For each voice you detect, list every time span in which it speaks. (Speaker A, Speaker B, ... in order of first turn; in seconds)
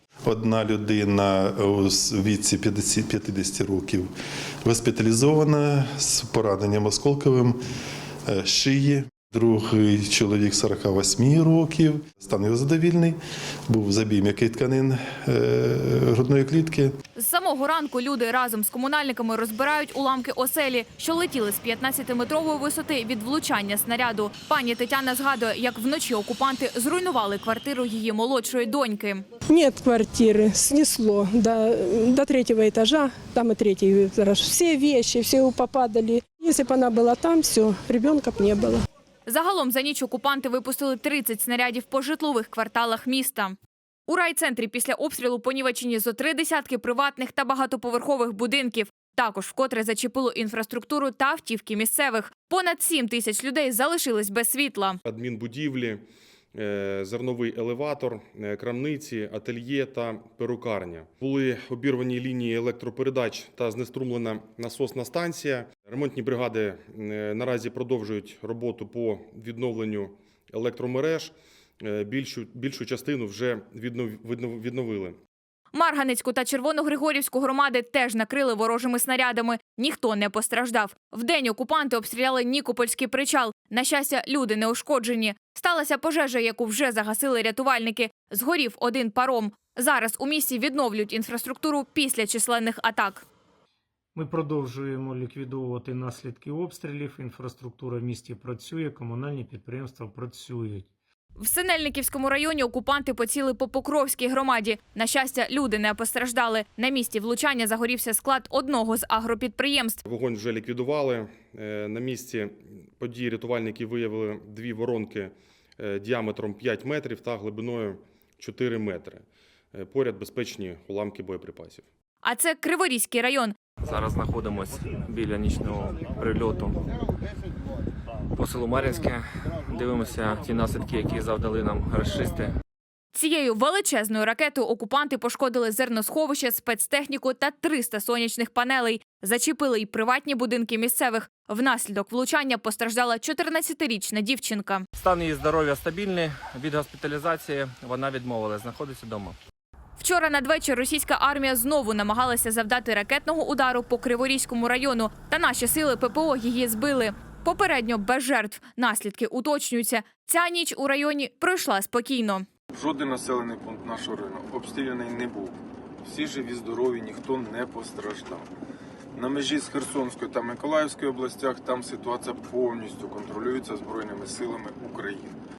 Speaker A: 0.3-4.1, 4.7-7.6, 8.3-13.2, 13.7-16.9
Speaker B: 17.2-29.2, 39.3-43.6, 44.1-55.0, 75.7-93.2, 101.4-110.0, 122.2-123.5, 133.1-144.8, 150.0-162.5
Speaker C: 29.5-38.9
Speaker D: 55.0-75.2, 110.0-121.9
Speaker E: 94.2-100.9
Speaker F: 123.8-126.8, 128.4-132.6, 145.0-149.4
Speaker G: 162.7-168.5, 169.2-175.3